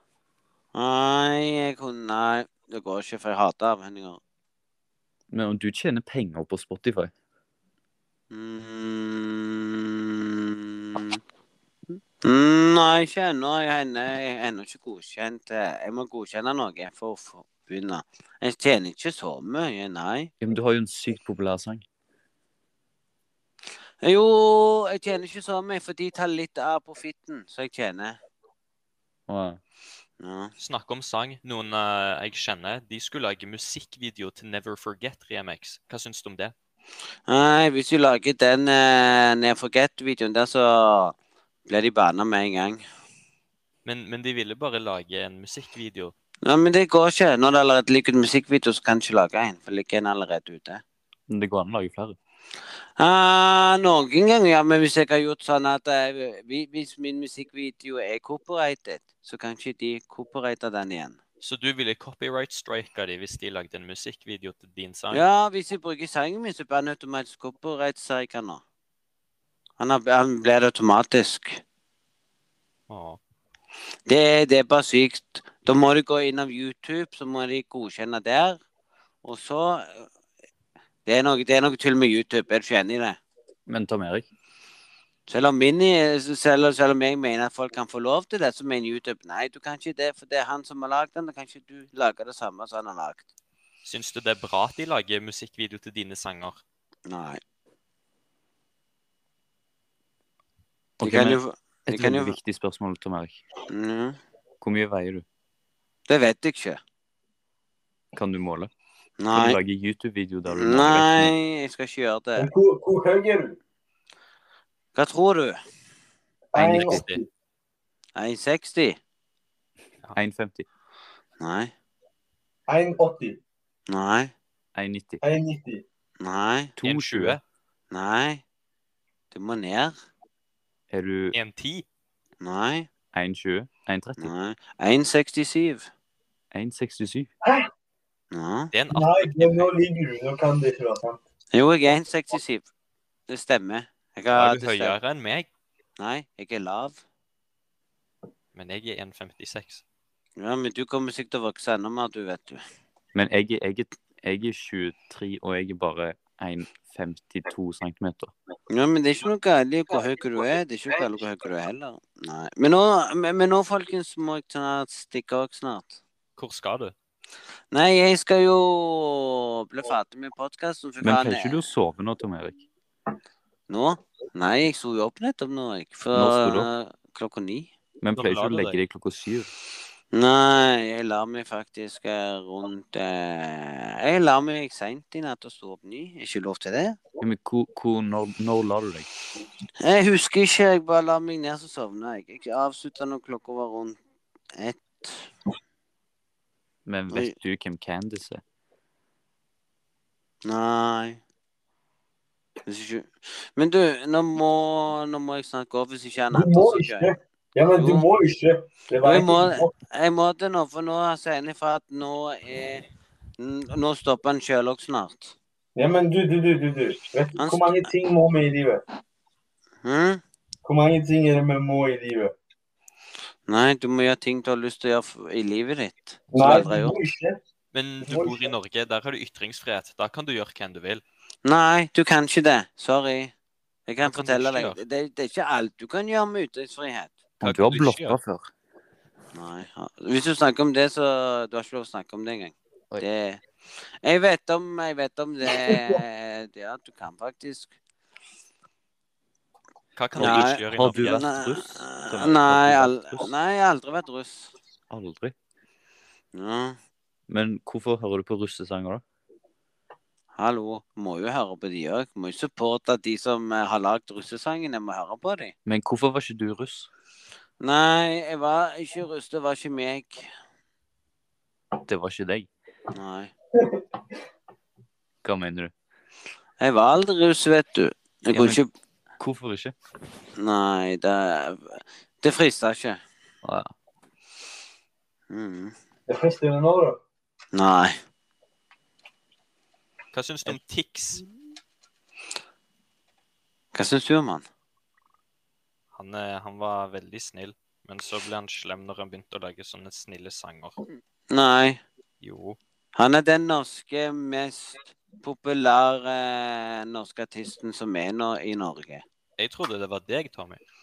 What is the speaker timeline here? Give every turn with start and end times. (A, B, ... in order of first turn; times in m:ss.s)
0:00.7-0:04.2 A
0:05.3-0:07.1 B
0:08.3-0:11.2 A
0:12.2-0:20.3 A
0:20.4-0:21.8 B
0:24.0-0:28.2 A
0:29.3-0:29.6 B
0:30.2-0:30.5 A
0:30.6-0:36.5 C
0:37.3-0:41.1 A
0:41.7-0:42.8 A
0:43.8-0:46.1 C
0:46.4-0:50.8 A
0:51.3-0:52.2 B
0:53.0-1:01.2 A
1:01.4-1:05.2 C
1:05.1-1:08.6 A
1:09.8-1:11.6 A
1:12.9-1:13.2 C
1:14.1-1:18.6 A
1:19.2-1:20.1 A
1:21.0-1:23.2 A
1:23.7-1:24.3 B
1:25.3-1:33.2 A
1:33.8-1:36.6 C
1:37.1-1:37.4 A
1:41.0-1:43.4 B
1:41.0-1:42.4 A
1:43.7-1:44.2 A
1:44.6-1:45.2 B
1:46.1-1:46.8 A
1:48.1-1:48.7 B
1:49.2-1:49.6 A
1:49.3-1:51.3 B
1:50.5-1:52.5 A
1:52.4-1:53.6 D
1:54.9-1:55.6 A
1:56.5-1:57.3 D
1:56.6-1:57.1 B
1:56.6-1:57.2 C
1:58.2-1:59.0 A
2:00.1-2:00.6 B
2:01.4-2:01.7 A
2:02.7-2:03.4 D
2:03.9-2:04.3 A
2:04.7-2:05.2 B
2:05.2-2:05.8 D
2:06.2-2:06.7 A
2:06.8-2:07.4 B
2:06.8-2:07.4 C
2:07.9-2:08.4 A
2:09.3-2:09.9 A
2:10.9-2:11.4 B
2:11.3-2:11.8 C
2:12.4-2:12.9 A
2:13.1-2:14.3 B
2:14.2-2:15.9 A
2:16.5-2:17.3 B
2:17.4-2:17.7 D
2:18.3-2:18.7 A
2:18.7-2:19.7 C
2:18.9-2:21.2 D
2:21.5-2:22.7 A
2:23.3-2:25.0 A
2:24.3-2:25.5 C
2:26.0-2:27.0 A
2:28.5-2:29.8 C
2:30.4-2:32.6 A
2:33.1-2:38.3 B
2:38.7-2:46.0 A
2:46.4-2:46.9 C
2:47.7-2:51.7 A
2:51.0-2:52.6 B
2:53.7-2:57.7 A
2:56.1-2:56.7 B
2:58.0-2:59.5 B
2:58.2-2:58.8 C
3:00.1-3:07.0 A
3:07.2-3:09.1 B
3:09.8-3:14.0 A
3:14.6-3:15.3 A
3:16.8-3:18.4 B
3:20.4-3:21.2 A
3:22.6-3:27.1 A
3:26.3-3:29.7 D
3:27.8-3:28.0 A
3:29.0-3:32.8 A
3:33.4-3:35.3 A
3:35.8-3:38.8 D
3:37.4-3:37.9 A
3:39.8-3:40.2 A
3:40.6-3:42.3 D
3:43.5-3:47.0 A
3:46.3-3:47.4 D
3:47.7-3:51.0 C
3:48.0-3:48.5 D
3:51.4-3:53.3 A
3:53.9-3:57.1 A
3:54.0-3:54.8 C
3:57.4-3:58.5 B
3:57.4-3:58.2 C
3:59.3-4:03.4 A
4:04.0-4:07.7 A
4:10.0-4:11.4 C
4:10.1-4:13.3 B
4:10.2-4:14.5 A
4:14.9-4:15.3 B
4:16.3-4:16.8 A
4:17.3-4:19.0 B
4:20.4-4:25.5 A
4:25.6-4:26.9 B
4:27.6-4:30.3 A
4:31.8-4:32.5 B
4:32.9-4:33.3 A
4:35.2-4:35.7 B
4:36.6-4:38.7 A
4:38.3-4:38.6 B
4:39.2-4:39.7 B
4:40.4-4:43.0 A
4:43.4-4:43.7 B
4:45.3-4:45.7 A
4:46.1-4:47.0 D
4:47.5-4:48.0 A
4:50.1-4:51.2 C
4:53.7-4:54.4 A
4:55.9-5:00.8 C
5:01.3-5:01.8 A
5:02.2-5:02.6 C
5:03.0-5:09.0 A
5:09.4-5:10.6 C